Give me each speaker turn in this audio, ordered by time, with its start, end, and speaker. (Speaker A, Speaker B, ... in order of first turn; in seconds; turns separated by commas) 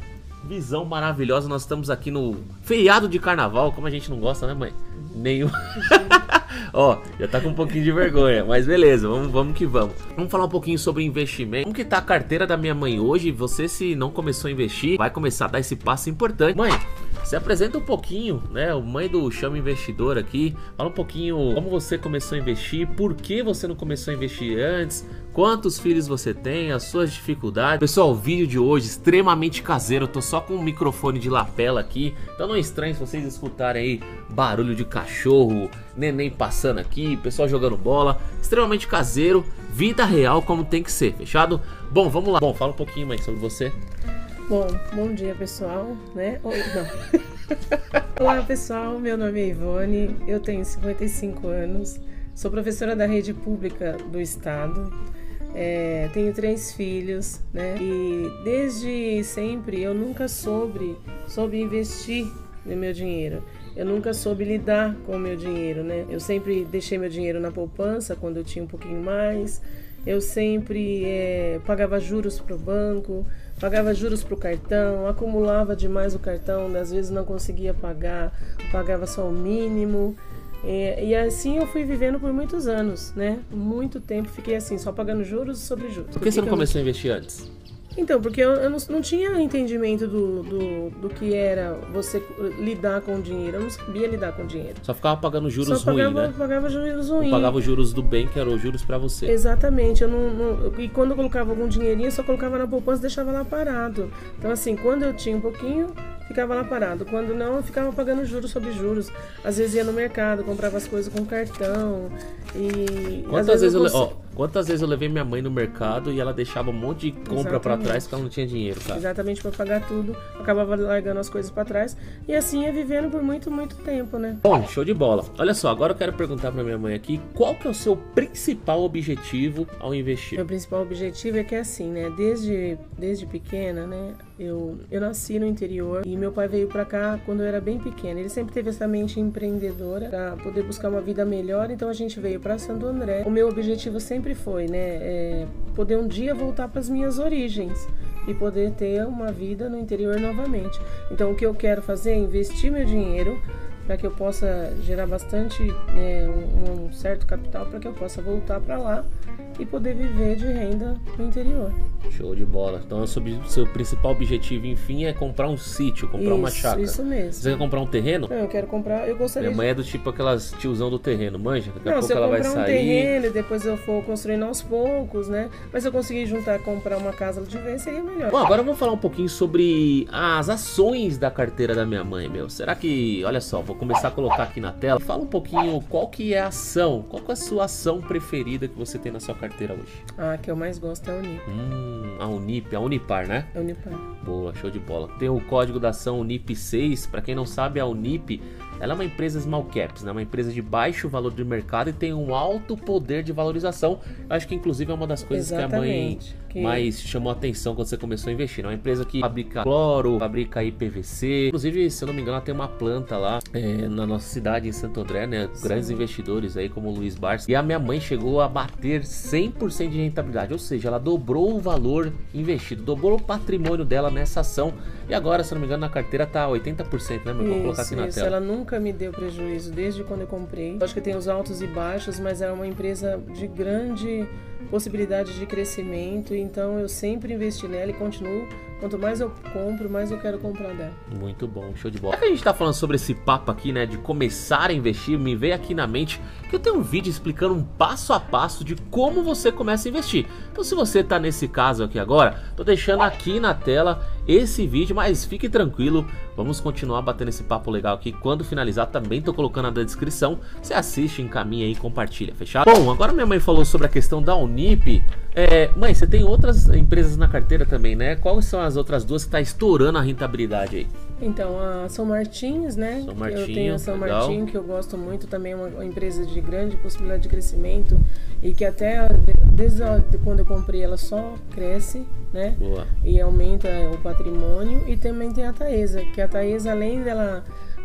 Speaker A: 0.4-43.8, Speaker B: 44.5-47.0, Speaker B: 48.1-54.9, Speaker B: 55.5-86.7, Speaker A: 86.2-87.5, Speaker B: 88.0-94.8, Speaker A: 94.8-96.3, Speaker B: 95.6-97.6, Speaker A: 97.2-99.3, Speaker B: 99.2-114.1, Speaker A: 113.3-119.0, Speaker B: 117.3-118.1, Speaker B: 118.9-124.4, Speaker A: 124.4-130.4, Speaker B: 130.3-159.1, Speaker B: 159.6-161.8, Speaker A: 162.1-168.3, Speaker B: 166.2-167.7, Speaker B: 168.3-169.7, Speaker A: 169.4-173.1, Speaker B: 171.8-178.4, Speaker A: 178.3-190.0, Speaker B: 190.2-191.4, Speaker A: 191.5-193.5, Speaker B: 193.5-194.0, Speaker A: 194.2-228.3, Speaker B: 205.2-206.9, Speaker B: 215.6-216.0, Speaker B: 227.4-241.0, Speaker A: 241.1-270.9, Speaker B: 271.2-287.4, Speaker A: 273.0-274.4, Speaker A: 282.6-282.9